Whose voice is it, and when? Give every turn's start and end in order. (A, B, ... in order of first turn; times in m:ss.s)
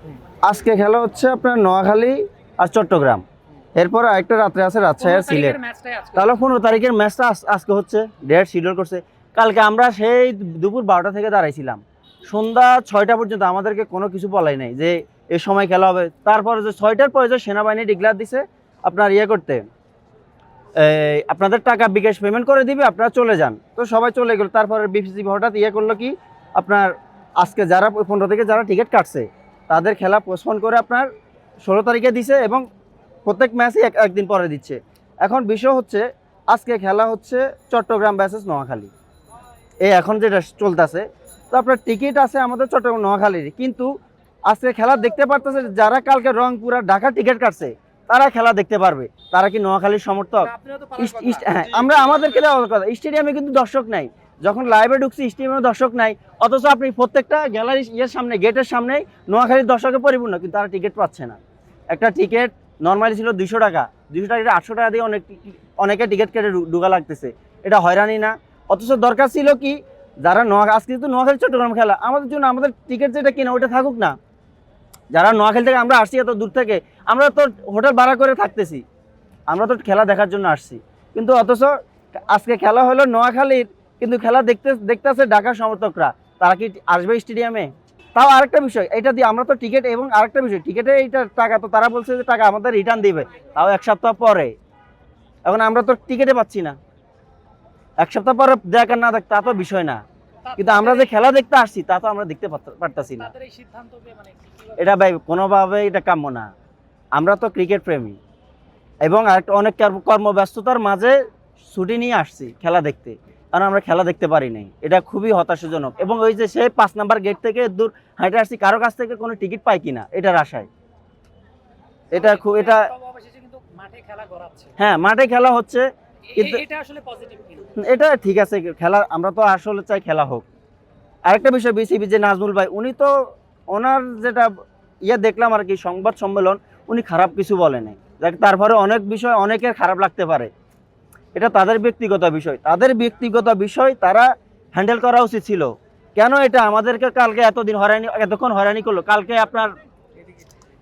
0:00.4-0:03.2 A
0:03.8-0:05.6 A
0:05.0-0:06.4 B
0:06.1-0:19.6 A
0:20.8-0:31.1 A
0:31.6-0:32.6 A
0:33.2-0:38.9 A
0:39.8-0:43.9 A
0:44.5-1:01.4 A
1:01.9-1:14.2 A
1:15.1-1:18.8 A
1:19.5-1:21.8 A
1:22.3-1:34.5 A
1:35.5-1:36.8 A
1:38.0-1:40.0 A
1:40.4-1:41.1 B
1:40.6-1:43.3 A
1:43.2-1:44.9 B
1:44.8-1:46.5 A
1:47.2-1:48.2 A
1:49.0-2:00.7 A
2:02.1-2:02.9 A
2:02.1-2:04.7 B
2:04.8-2:06.6 A
2:06.3-2:07.7 B
2:07.8-2:10.4 A
2:11.3-2:13.1 A
2:13.7-2:14.5 A
2:15.0-2:20.5 A
2:21.4-2:29.7 A